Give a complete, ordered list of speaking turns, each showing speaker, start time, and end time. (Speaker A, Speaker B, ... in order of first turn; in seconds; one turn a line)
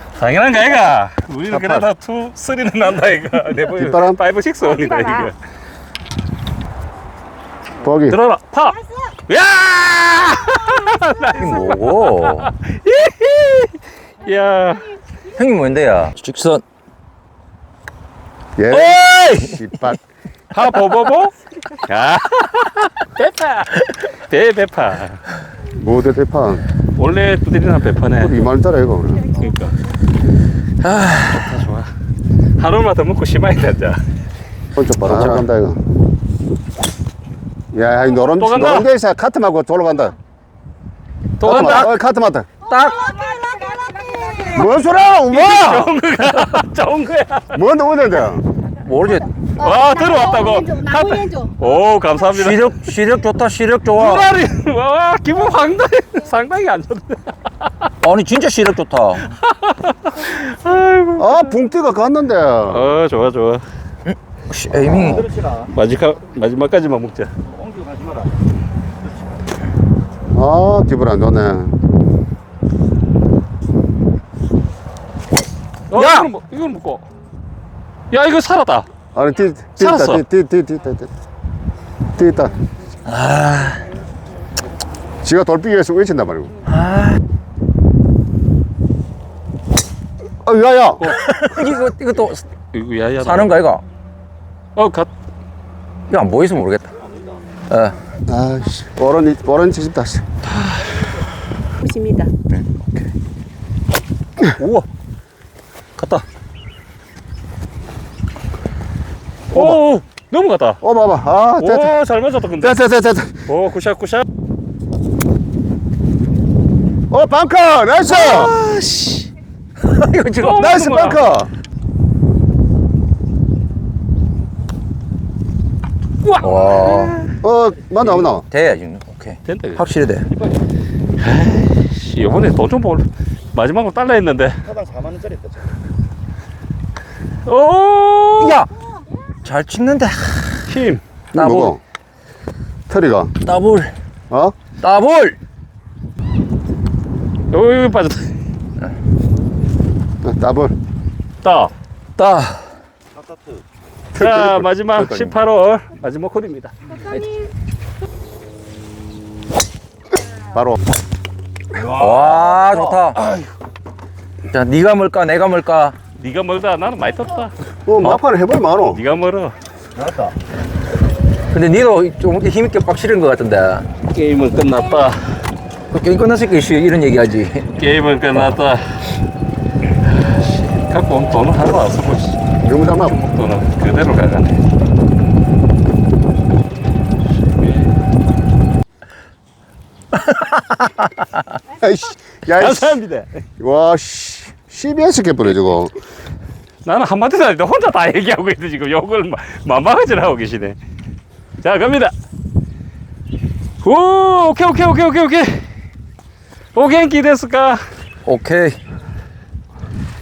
Speaker A: 0.1-5.3
Speaker B: 1.5-1.9
Speaker C: 3.7-4.2
Speaker C: 7.8-8.2
Speaker A: 8.1-15.0
Speaker D: 8.8-9.1
Speaker B: 11.3-12.5
Speaker B: 15.3-16.6
Speaker C: 18.6-20.0
Speaker B: 18.7-19.5
Speaker A: 20.5-25.2
Speaker C: 25.7-26.6
Speaker A: 27.0-28.4
Speaker C: 28.2-29.3
Speaker A: 29.3-29.8
Speaker B: 30.8-31.6
Speaker A: 31.2-31.9
Speaker A: 32.6-34.0
Speaker C: 34.8-35.8
Speaker B: 35.0-35.4
Speaker C: 37.7-40.1
Speaker A: 38.3-38.9
Speaker A: 41.4-41.9
Speaker C: 41.4-42.5
Speaker B: 42.7-43.1
Speaker D: 42.7-44.7
Speaker C: 44.5-45.9
Speaker A: 45.3-47.6
Speaker C: 47.5-48.4
Speaker B: 48.8-49.2
Speaker A: 49.6-52.7
Speaker D: 49.6-51.5
Speaker B: 52.3-54.3
Speaker A: 54.0-57.9
Speaker B: 58.0-59.3
Speaker A: 59.3-61.5
Speaker C: 61.2-62.9
Speaker A: 62.7-63.6
Speaker B: 64.0-65.3
Speaker A: 65.5-67.3
Speaker C: 70.3-71.7
Speaker A: 75.9-77.0
Speaker B: 75.9-76.3
Speaker A: 78.1-78.9
Speaker C: 79.1-81.1
Speaker A: 79.8-80.2
Speaker C: 82.2-82.5
Speaker B: 83.0-83.8
Speaker C: 85.2-86.5
Speaker B: 86.6-87.2
Speaker C: 90.4-91.1
Speaker B: 91.0-92.4
Speaker A: 92.7-93.6
Speaker B: 93.2-93.8
Speaker A: 94.8-95.1
Speaker B: 96.1-96.9
Speaker B: 97.7-98.0
Speaker C: 98.3-100.2
Speaker A: 100.6-100.9
Speaker D: 101.8-102.3
Speaker B: 102.5-102.9
Speaker A: 104.4-104.9
Speaker A: 106.0-106.2
Speaker C: 109.5-109.8
Speaker A: 109.5-110.8
Speaker C: 110.8-111.9
Speaker A: 111.6-112.8
Speaker C: 112.6-113.3
Speaker A: 113.5-114.2
Speaker C: 117.1-118.5
Speaker A: 118.0-119.3
Speaker B: 119.8-120.7
Speaker A: 120.4-121.2
Speaker C: 120.5-121.5
Speaker A: 126.2-127.3
Speaker B: 126.4-127.2
Speaker C: 127.4-128.4
Speaker B: 128.5-130.3
Speaker A: 129.4-129.8
Speaker A: 131.2-134.6
Speaker A: 137.4-138.6
Speaker B: 138.4-138.7
Speaker B: 139.4-140.6
Speaker A: 140.7-141.0
Speaker B: 141.3-141.8
Speaker C: 141.3-141.8
Speaker C: 142.9-143.3
Speaker B: 143.4-143.9
Speaker C: 144.3-144.5
Speaker B: 144.8-145.4
Speaker A: 147.5-148.3
Speaker C: 150.2-150.7
Speaker A: 151.4-151.7
Speaker B: 152.2-152.7
Speaker A: 154.1-156.7
Speaker C: 154.2-154.6
Speaker B: 154.9-155.4
Speaker C: 160.5-160.8
Speaker B: 161.8-163.2
Speaker B: 164.5-165.9
Speaker A: 166.2-167.5
Speaker C: 167.8-169.0
Speaker A: 168.9-169.6
Speaker B: 171.5-173.9
Speaker A: 174.1-175.2
Speaker B: 175.9-177.7
Speaker A: 177.7-179.0
Speaker A: 180.0-182.4
Speaker C: 182.6-183.2
Speaker A: 183.0-184.6
Speaker A: 187.6-187.8
Speaker B: 190.1-191.1
Speaker C: 191.8-193.0
Speaker A: 192.5-193.4
Speaker C: 193.6-195.9
Speaker A: 196.8-200.8
Speaker A: 201.6-202.1
Speaker A: 203.8-205.7
Speaker A: 206.7-207.8
Speaker B: 208.2-208.8